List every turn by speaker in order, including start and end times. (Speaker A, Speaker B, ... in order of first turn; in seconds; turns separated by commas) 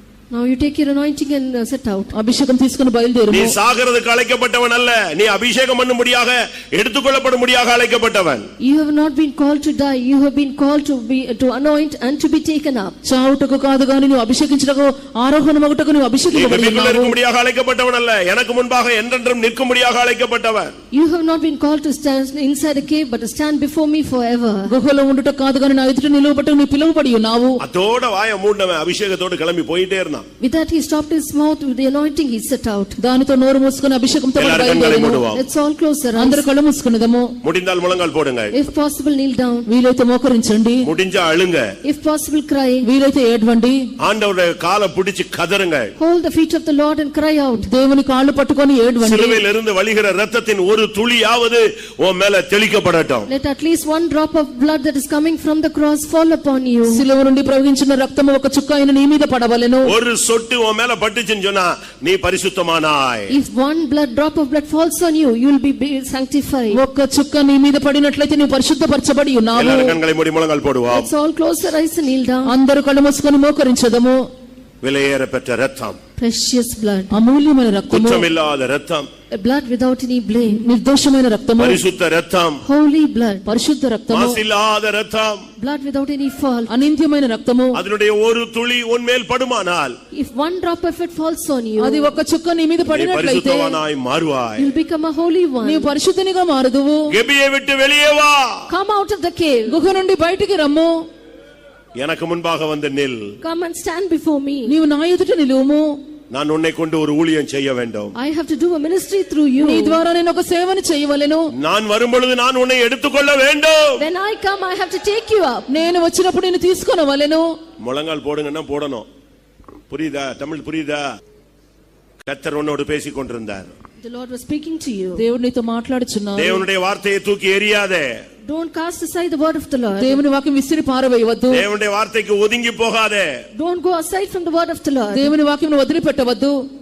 Speaker A: 0.3-2.1, Speaker B: 2.1-3.5, Speaker C: 3.3-8.5, Speaker A: 8.6-12.9, Speaker B: 13.0-17.1, Speaker C: 16.3-20.7, Speaker A: 20.9-24.7, Speaker B: 24.7-27.6, Speaker C: 27.6-30.2, Speaker A: 30.4-33.0, Speaker B: 33.0-35.2, Speaker C: 34.4-35.4, Speaker A: 35.3-36.4, Speaker B: 36.1-37.3, Speaker C: 37.4-38.5, Speaker A: 38.5-39.7, Speaker B: 39.6-40.9, Speaker C: 40.8-41.7, Speaker A: 41.8-42.9, Speaker B: 42.8-43.9, Speaker C: 44.0-45.9, Speaker A: 46.0-47.7, Speaker B: 47.6-49.4, Speaker C: 49.0-53.3, Speaker A: 53.3-57.0, Speaker B: 56.9-59.9, Speaker C: 59.8-63.3, Speaker A: 63.3-66.8, Speaker B: 66.7-70.0, Speaker C: 69.5-71.1, Speaker A: 70.9-72.5, Speaker B: 72.4-74.3, Speaker C: 74.8-76.0, Speaker A: 76.2-77.2, Speaker B: 77.1-78.2, Speaker C: 77.9-79.1, Speaker A: 79.3-80.7, Speaker B: 80.5-81.8, Speaker C: 81.6-82.6, Speaker A: 82.6-83.5, Speaker B: 83.5-84.4, Speaker C: 84.1-85.5, Speaker A: 85.6-86.7, Speaker B: 86.7-87.8, Speaker C: 87.7-90.0, Speaker A: 90.1-92.1, Speaker B: 91.8-93.8, Speaker C: 92.9-94.7, Speaker A: 94.6-95.9, Speaker B: 95.6-97.1, Speaker C: 97.1-98.7, Speaker A: 98.7-99.8, Speaker B: 99.7-100.9, Speaker C: 102.0-103.2, Speaker A: 103.4-104.7, Speaker B: 104.7-106.0, Speaker C: 106.3-108.1, Speaker A: 108.2-110.0, Speaker B: 109.6-111.5, Speaker C: 111.5-114.0, Speaker A: 114.0-115.7, Speaker B: 115.7-117.5, Speaker C: 117.8-119.0, Speaker C: 119.9-121.0, Speaker C: 122.2-123.7, Speaker A: 124.0-125.2, Speaker B: 125.2-126.6, Speaker C: 126.3-128.2, Speaker A: 128.4-130.2, Speaker B: 129.9-131.6, Speaker C: 131.5-133.4, Speaker A: 133.5-135.3, Speaker B: 135.1-136.6